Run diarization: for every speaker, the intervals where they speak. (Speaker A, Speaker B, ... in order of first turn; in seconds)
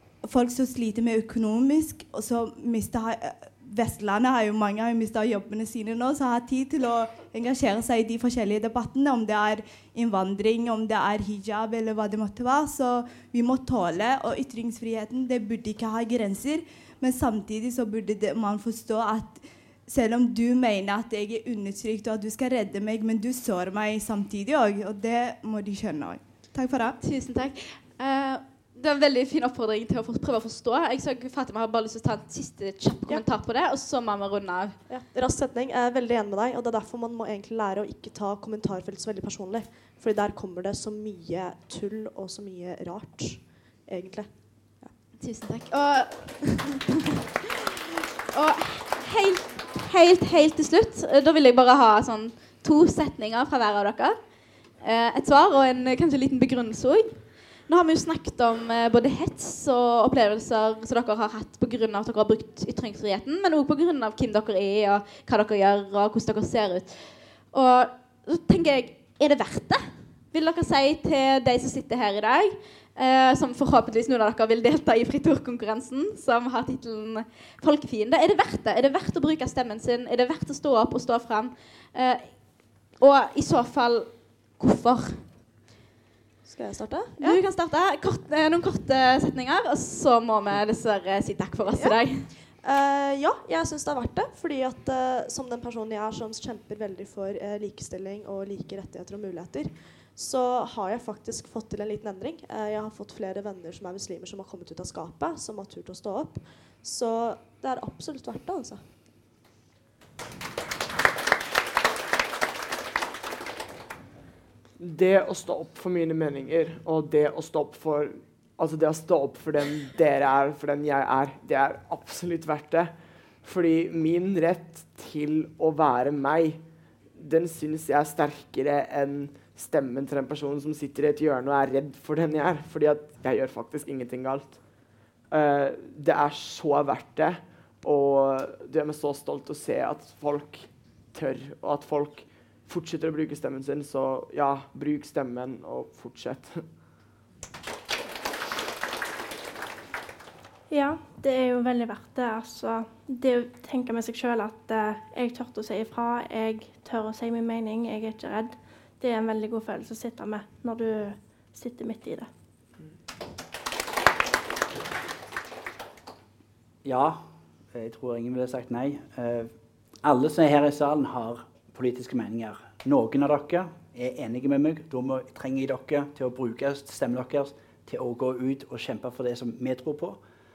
Speaker A: 0.2-27.0
Speaker B: 27.0-34.8, 45.2-46.9, 48.3-54.1, 54.8-82.4, 83.0-85.2, 87.2-92.3
Speaker C: 34.9-44.9, 86.5-87.4, 91.7-92.0, 92.6-108.8
Speaker D: 114.8-122.9, 123.4-126.6, 127.2-134.6, 135.3-146.6
Speaker E: 150.7-162.3
Speaker F: 166.8-167.2, 167.7-169.5, 170.0-180.2